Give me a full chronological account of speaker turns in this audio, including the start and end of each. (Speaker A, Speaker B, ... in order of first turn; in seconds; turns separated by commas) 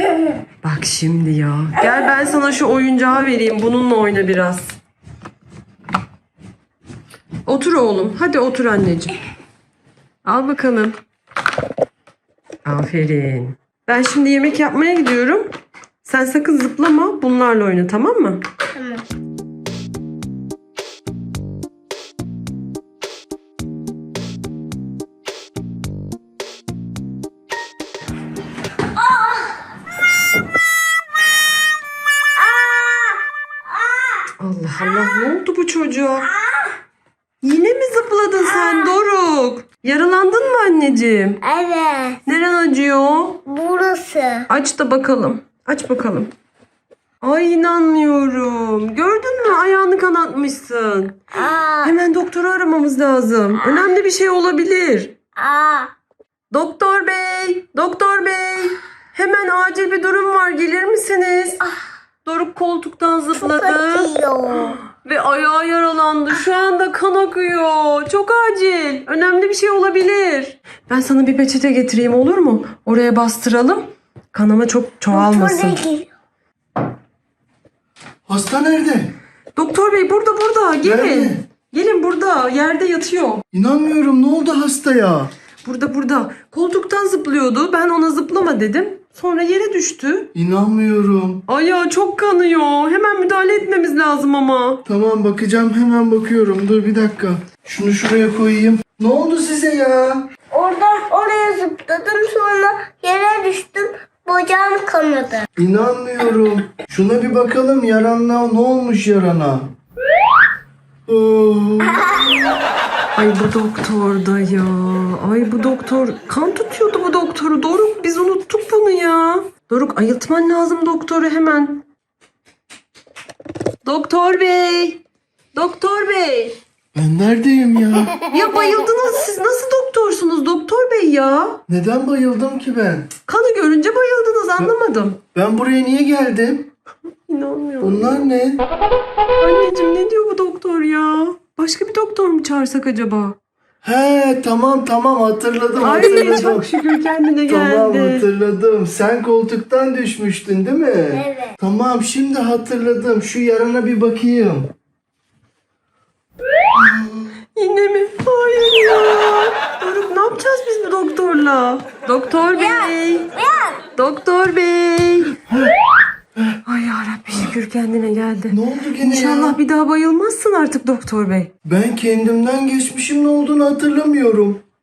Speaker A: 0.6-4.7, Speaker A: 7.5-9.2, Speaker A: 10.2-11.0, Speaker A: 12.7-15.5, Speaker A: 16.0-18.4, Speaker B: 18.8-19.0, Speaker B: 32.4-34.3, Speaker A: 34.4-36.3, Speaker A: 37.4-41.4, Speaker B: 41.4-42.2, Speaker A: 42.3-43.4, Speaker B: 43.5-44.5, Speaker A: 44.5-46.3, Speaker A: 47.2-51.2, Speaker B: 51.4-51.9, Speaker A: 51.8-55.2, Speaker B: 55.4-55.9, Speaker A: 56.5-61.6, Speaker A: 62.2-64.1, Speaker B: 63.4-64.8, Speaker A: 64.8-75.8, Speaker B: 75.1-76.1, Speaker C: 78.3-79.2, Speaker A: 79.5-83.4, Speaker C: 80.8-81.4, Speaker C: 83.5-85.3, Speaker A: 85.6-90.3, Speaker C: 90.3-91.5, Speaker A: 91.5-94.8, Speaker C: 94.9-100.3, Speaker B: 100.5-105.5, Speaker C: 105.6-109.7, Speaker C: 111.1-112.3, Speaker A: 113.2-121.8, Speaker A: 123.8-125.0, Speaker A: 125.5-126.6, Speaker C: 126.9-128.3, Speaker A: 128.3-131.6, Speaker C: 131.7-133.1, Speaker A: 133.3-135.2, Speaker C: 135.3-136.7, Speaker A: 137.3-138.3, Speaker C: 137.8-138.6, Speaker A: 139.4-143.4, Speaker C: 143.8-146.7, Speaker A: 145.8-148.3, Speaker C: 147.5-154.7, Speaker B: 151.1-151.5, Speaker C: 156.8-157.3, Speaker A: 157.6-163.3, Speaker B: 162.6-163.8, Speaker A: 163.9-165.4, Speaker A: 166.7-171.5, Speaker C: 168.5-169.6, Speaker C: 171.7-174.6